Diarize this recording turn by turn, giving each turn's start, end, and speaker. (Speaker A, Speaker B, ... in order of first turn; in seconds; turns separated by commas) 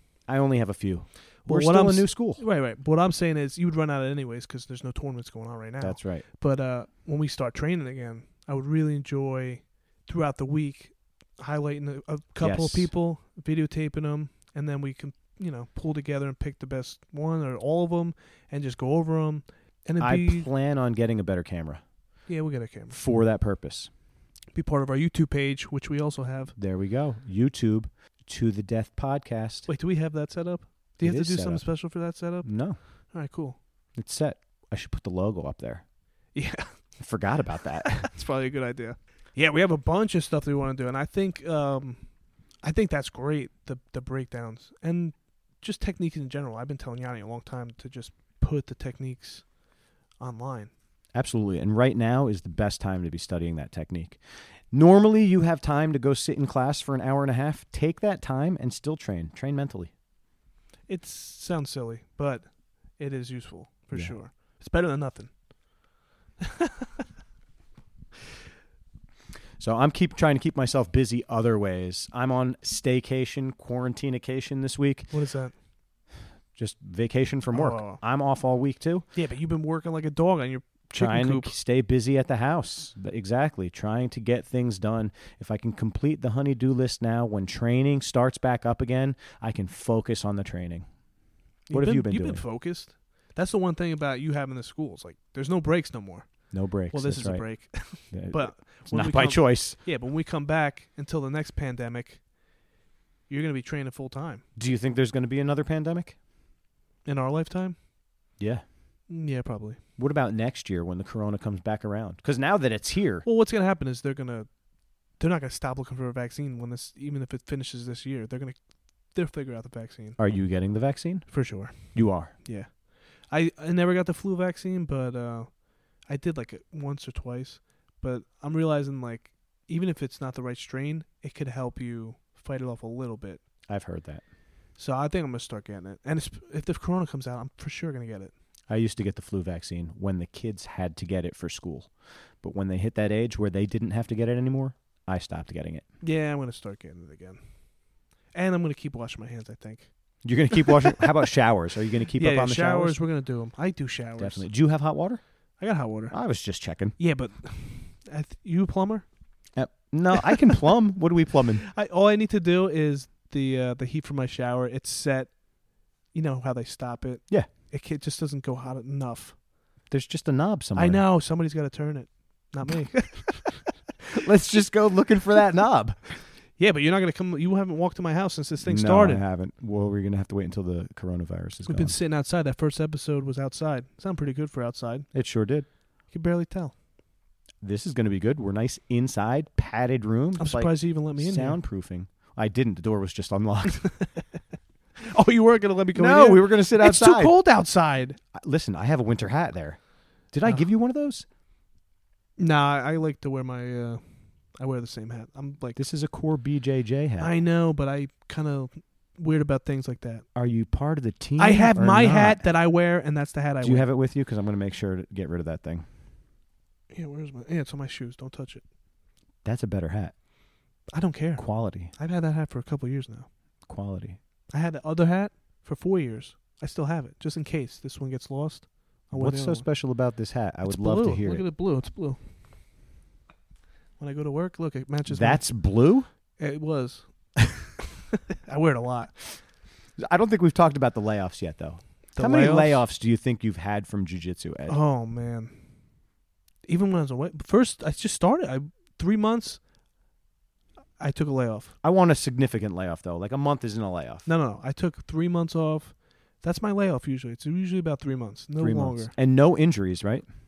Speaker A: 0.3-2.4, Speaker B: 1.4-20.5, Speaker A: 5.8-6.2, Speaker A: 12.4-12.9, Speaker A: 20.0-21.8, Speaker B: 22.3-23.0, Speaker A: 22.9-23.9, Speaker B: 24.5-26.6, Speaker A: 26.6-29.7, Speaker B: 29.7-32.5, Speaker A: 31.0-31.7, Speaker A: 32.4-32.8, Speaker B: 33.1-33.6, Speaker A: 34.0-35.9, Speaker B: 36.3-36.8, Speaker A: 37.0-38.1, Speaker B: 37.9-42.0, Speaker B: 42.6-49.5, Speaker B: 50.2-50.7, Speaker A: 51.1-54.2, Speaker A: 54.7-59.9, Speaker B: 60.9-65.4, Speaker B: 66.4-67.0, Speaker A: 69.6-75.1, Speaker B: 75.1-75.5, Speaker A: 76.5-79.1, Speaker B: 77.5-78.0, Speaker B: 79.1-81.5, Speaker A: 80.9-90.9, Speaker B: 91.7-96.3, Speaker A: 91.7-92.4, Speaker A: 96.5-97.5, Speaker B: 96.9-102.2, Speaker A: 98.1-99.8, Speaker B: 103.3-104.4, Speaker A: 104.6-106.2, Speaker B: 107.0-107.8, Speaker A: 108.4-108.6, Speaker B: 109.1-109.8, Speaker A: 110.0-113.3, Speaker B: 113.2-114.5, Speaker B: 115.2-118.6, Speaker B: 119.1-120.2, Speaker A: 120.2-122.3, Speaker B: 121.3-133.4, Speaker A: 133.7-134.2, Speaker B: 134.8-138.3, Speaker A: 138.7-145.8, Speaker B: 146.0-147.4, Speaker B: 148.3-149.9, Speaker A: 150.2-153.0, Speaker B: 150.5-151.1, Speaker B: 152.2-154.5, Speaker A: 154.2-155.2, Speaker B: 155.6-156.2, Speaker A: 156.1-157.0, Speaker B: 157.0-159.1, Speaker A: 159.6-161.7, Speaker B: 161.6-165.4, Speaker B: 166.1-169.4, Speaker A: 169.9-171.0, Speaker B: 170.8-173.6, Speaker A: 174.1-176.2, Speaker B: 176.6-179.2, Speaker A: 178.7-182.0, Speaker B: 181.7-185.1, Speaker A: 185.1-185.7, Speaker B: 186.1-186.8, Speaker A: 187.6-193.9, Speaker B: 190.4-191.6, Speaker B: 195.0-198.2, Speaker A: 195.9-197.3, Speaker A: 198.3-201.3, Speaker B: 202.4-204.0, Speaker B: 204.5-205.8, Speaker A: 205.8-207.3, Speaker B: 207.2-210.2, Speaker A: 210.3-212.4, Speaker B: 211.4-213.9, Speaker A: 213.6-215.9, Speaker B: 216.9-218.6, Speaker A: 219.4-220.1, Speaker B: 220.9-223.3, Speaker A: 221.4-221.9, Speaker A: 223.7-224.2, Speaker B: 224.5-229.7, Speaker A: 229.1-231.4, Speaker B: 230.6-232.2, Speaker B: 234.0-235.4, Speaker A: 235.1-236.1, Speaker B: 236.4-237.1, Speaker B: 238.3-239.2, Speaker A: 240.0-244.8, Speaker B: 242.2-242.8, Speaker B: 244.7-245.6, Speaker B: 246.7-249.6, Speaker B: 251.0-251.7, Speaker A: 251.8-254.3, Speaker B: 254.3-259.1, Speaker A: 258.6-260.3